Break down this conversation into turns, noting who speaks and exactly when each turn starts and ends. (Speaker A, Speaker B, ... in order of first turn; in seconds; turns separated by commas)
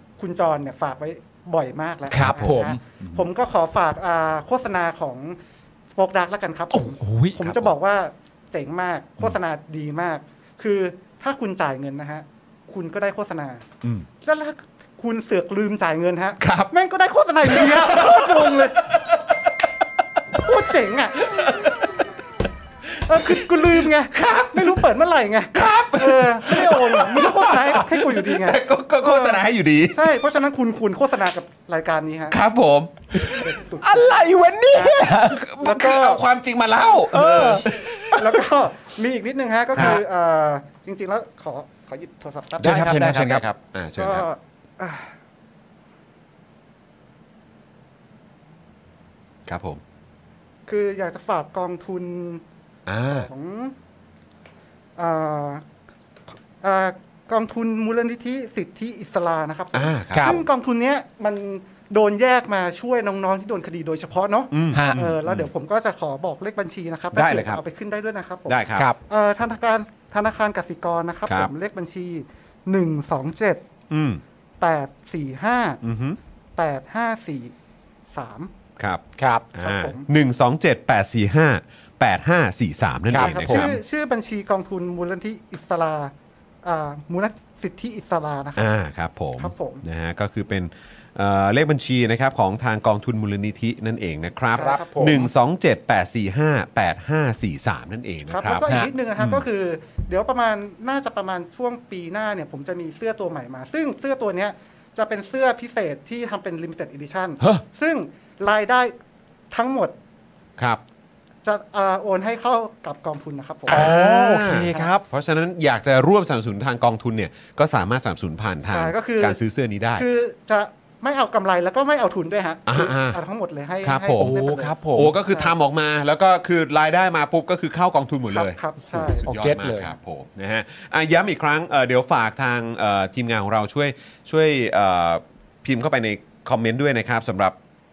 Speaker A: 0.2-5.4, Speaker B: 2.1-3.2, Speaker C: 2.2-2.6, Speaker A: 5.9-13.6, Speaker B: 6.7-7.6, Speaker A: 14.2-18.8, Speaker C: 16.4-16.7, Speaker C: 17.4-19.2, Speaker A: 20.4-21.3, Speaker C: 21.3-21.9, Speaker A: 23.1-32.4, Speaker C: 23.2-24.8, Speaker C: 25.5-30.0, Speaker C: 32.3-33.6, Speaker B: 33.1-35.5, Speaker A: 33.4-34.1, Speaker A: 34.7-35.0, Speaker C: 35.2-38.3, Speaker A: 35.6-36.2, Speaker B: 37.1-38.3, Speaker A: 38.1-42.8, Speaker B: 42.6-43.4, Speaker C: 42.6-44.3, Speaker A: 44.0-45.1, Speaker C: 49.5-49.8, Speaker A: 50.7-52.4, Speaker C: 52.9-53.3, Speaker A: 53.1-53.8, Speaker A: 55.0-55.6, Speaker A: 56.6-73.6, Speaker C: 59.7-60.4, Speaker B: 60.1-60.4, Speaker C: 64.5-65.5, Speaker B: 64.7-65.0, Speaker C: 67.1-67.6, Speaker C: 68.5-68.9, Speaker C: 73.9-74.2, Speaker A: 74.6-75.8, Speaker C: 75.8-76.2, Speaker A: 76.6-77.5, Speaker A: 78.1-78.5, Speaker B: 79.2-79.5, Speaker C: 79.5-83.8, Speaker A: 79.6-80.1, Speaker B: 83.1-83.7, Speaker A: 83.2-86.1, Speaker A: 86.6-88.7, Speaker C: 88.6-99.4, Speaker A: 89.4-89.8, Speaker B: 94.5-95.2, Speaker A: 94.5-95.3, Speaker A: 98.3-108.9, Speaker A: 109.5-109.9, Speaker A: 111.5-114.0, Speaker B: 113.7-115.0, Speaker C: 113.7-120.0, Speaker A: 118.7-119.4, Speaker A: 120.0-125.5, Speaker C: 122.7-123.2, Speaker C: 123.8-124.3, Speaker B: 124.2-125.2, Speaker C: 125.0-137.6, Speaker A: 128.3-129.3, Speaker B: 129.1-129.9